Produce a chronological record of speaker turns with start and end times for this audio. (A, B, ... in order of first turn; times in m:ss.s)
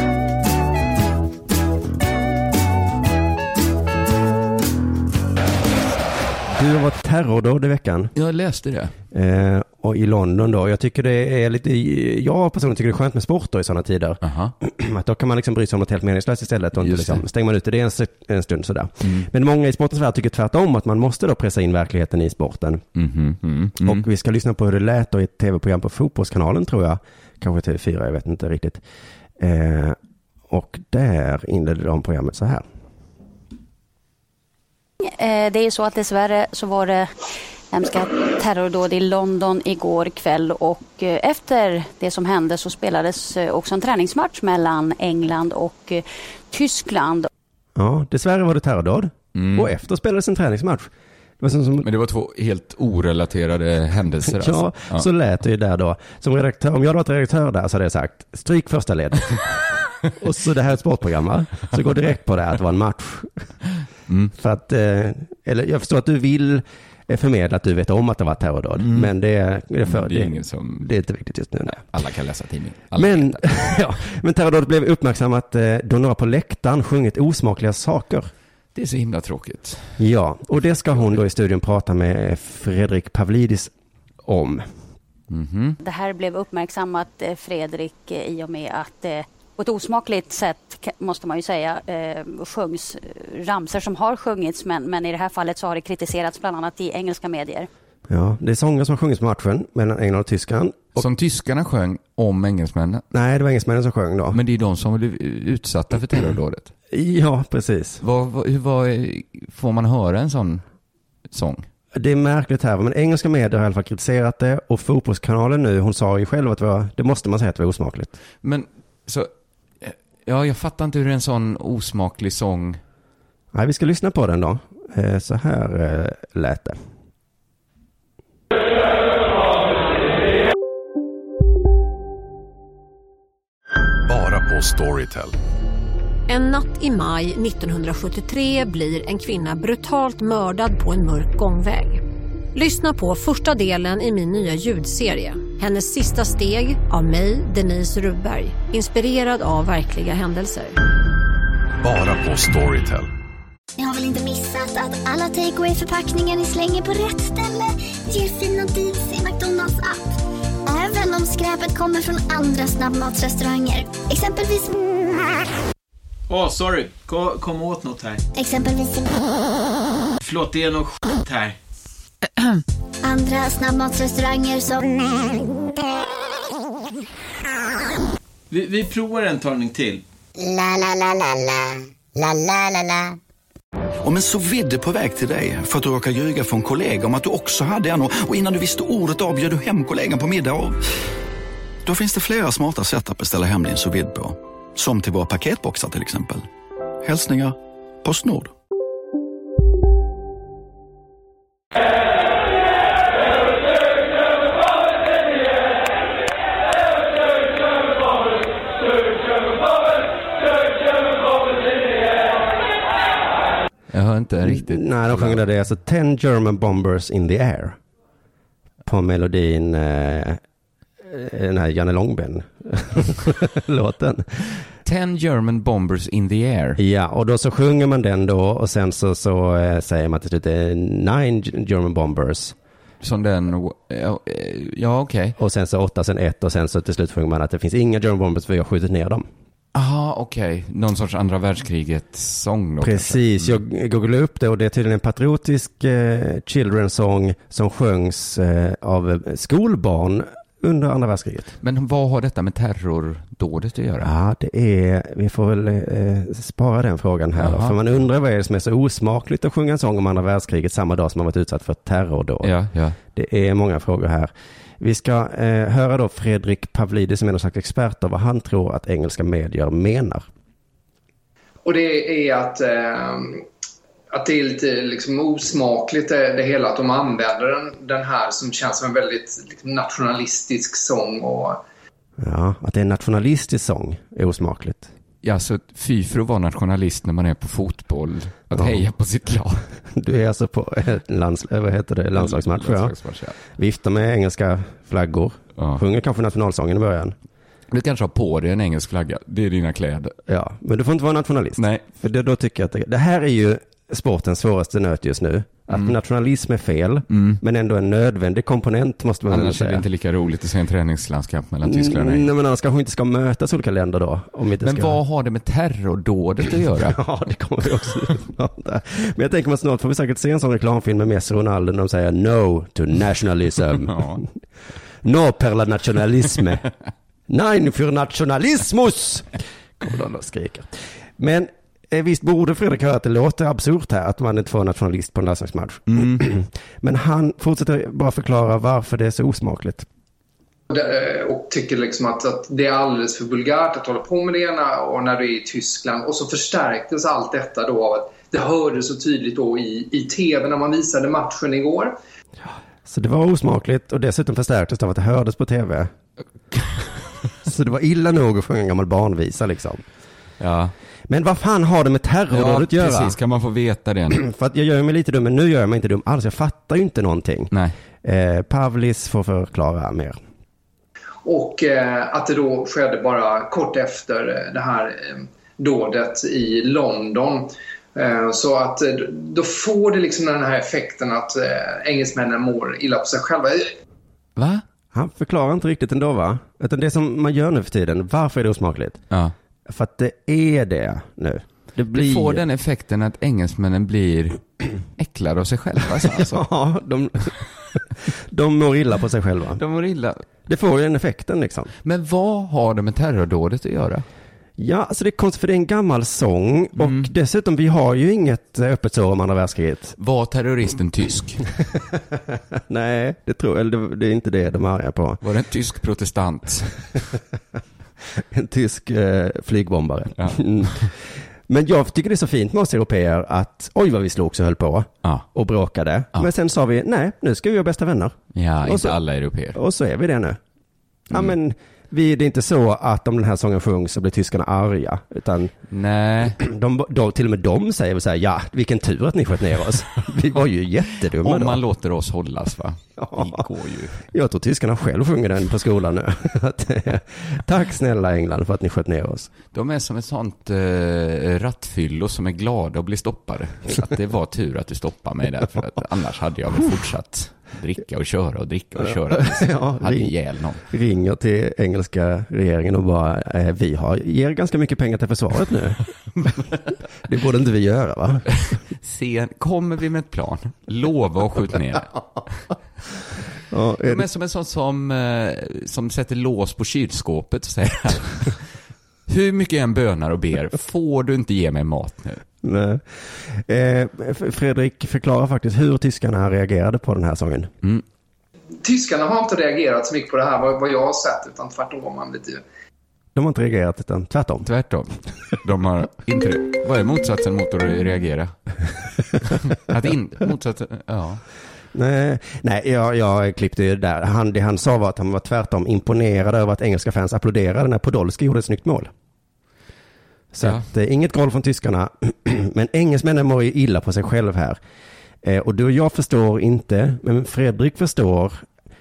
0:06.5-0:08.1 A
0:08.2-0:08.9 B
0:09.1-0:22.8 A
0:14.2-0:14.5 B
0:16.8-0:17.2 B
0:23.0-0:24.0 B
0:23.8-0:28.8 A
0:29.4-0:30.0 A
0:30.5-0:32.6 A
0:35.0-0:37.1 C
0:37.7-0:47.3 C
0:47.8-0:50.9 A
0:49.3-0:49.7 B
0:51.4-0:51.8 A
0:51.8-0:55.0 B
0:54.3-0:59.4 A
1:00.2-1:03.5 A
1:04.1-1:04.3 B
1:04.4-1:11.8 A
1:08.8-1:09.1 B
1:09.8-1:10.9 B
1:11.7-1:13.8 B
1:12.9-1:18.3 A
1:18.7-1:20.0 B
1:20.0-1:23.7 A
1:24.2-1:24.6 A
1:25.3-1:25.8 B
1:25.8-1:37.7 C
1:38.1-1:41.0 A
1:41.0-1:43.0 B
1:43.1-1:44.4 A
1:44.3-1:46.7 B
1:46.9-1:48.0 A
1:48.0-1:50.6 B
1:51.3-1:51.6 B
1:51.9-1:58.1 A
1:58.4-1:59.3 B
1:59.8-2:02.8 B
2:03.5-2:06.8 A
2:14.1-2:15.3 D
2:16.3-2:22.0 E
2:22.5-2:30.8 E
2:31.8-2:33.1 D
2:33.8-2:40.1 F
2:40.6-2:44.8 F
2:46.3-2:48.2 G
2:48.3-2:49.2 F
2:50.2-2:51.6 G
2:53.0-2:55.4 F
2:58.5-3:00.0 G
3:00.4-3:03.2 H
3:04.0-3:10.8 I
3:11.8-3:16.4 I
3:17.0-3:18.5 I
3:33.9-3:35.4 B
3:34.4-3:37.8 A
3:38.8-3:40.4 A
3:41.0-3:44.5 A
3:44.8-3:46.8 B
3:46.8-3:52.5 A
3:53.0-3:55.4 B
3:55.4-3:59.2 A
3:59.7-4:03.6 B
4:02.8-4:11.5 A
4:11.6-4:14.1 B
4:14.0-4:22.5 A
4:17.4-4:17.9 B
4:22.4-4:23.0 B
4:23.1-4:30.2 A
4:31.6-4:33.4 J
4:34.1-4:41.6 J
4:42.2-4:44.9 A
4:45.2-4:49.6 B
4:48.5-4:48.8 A
4:49.9-4:52.9 A
4:52.2-4:53.4 B
4:53.5-4:57.1 A
4:57.7-5:00.1 B
5:00.3-5:09.8 A
5:01.6-5:01.8 B
5:07.1-5:07.4 B
5:09.3-5:12.3 B
5:11.6-5:15.0 A
5:14.6-5:17.0 B
5:16.8-5:24.2 A
5:23.8-5:24.2 B
5:25.0-5:26.6 A
5:27.3-5:39.8 A
5:35.9-5:36.2 B
5:40.7-5:51.9 J
5:52.8-5:55.9 A
5:57.4-5:59.8 A
6:00.4-6:00.7 B
6:01.1-6:03.2 A
6:02.3-6:04.2 B
6:04.1-6:07.5 A
6:08.0-6:10.2 A
6:11.2-6:23.7 J
6:24.4-6:24.6 B
6:24.9-6:29.0 A
6:29.7-6:32.4 A
6:31.9-6:34.4 B
6:35.0-6:36.4 B
6:36.0-6:39.6 A
6:39.6-6:40.2 B
6:40.5-6:41.7 A
6:41.8-6:44.0 B
6:44.6-6:49.9 A
6:46.8-6:47.1 B
6:50.0-6:51.4 B
6:52.6-6:55.2 A
6:55.2-6:56.8 B
6:58.3-7:00.9 A
7:00.2-7:00.9 B
7:01.5-7:09.0 A
7:08.3-7:09.6 B
7:09.5-7:10.4 A
7:11.1-7:15.5 A
7:15.7-7:16.4 B
7:16.2-7:21.6 A
7:21.2-7:24.0 B
7:23.0-7:23.4 A
7:24.1-7:29.3 A
7:29.5-7:40.6 B
7:38.8-7:40.1 A
7:40.7-7:45.8 A
7:47.0-7:48.2 A
7:48.3-7:51.9 B
7:53.5-7:54.0 A
7:53.8-7:58.4 B
7:59.1-8:02.2 B
8:02.4-8:07.5 A
8:08.6-8:12.4 J
8:13.1-8:14.5 A
8:14.4-8:18.3 B
8:19.2-8:21.2 B
8:21.7-8:28.9 A
8:30.3-8:34.6 A
8:35.2-8:38.4 A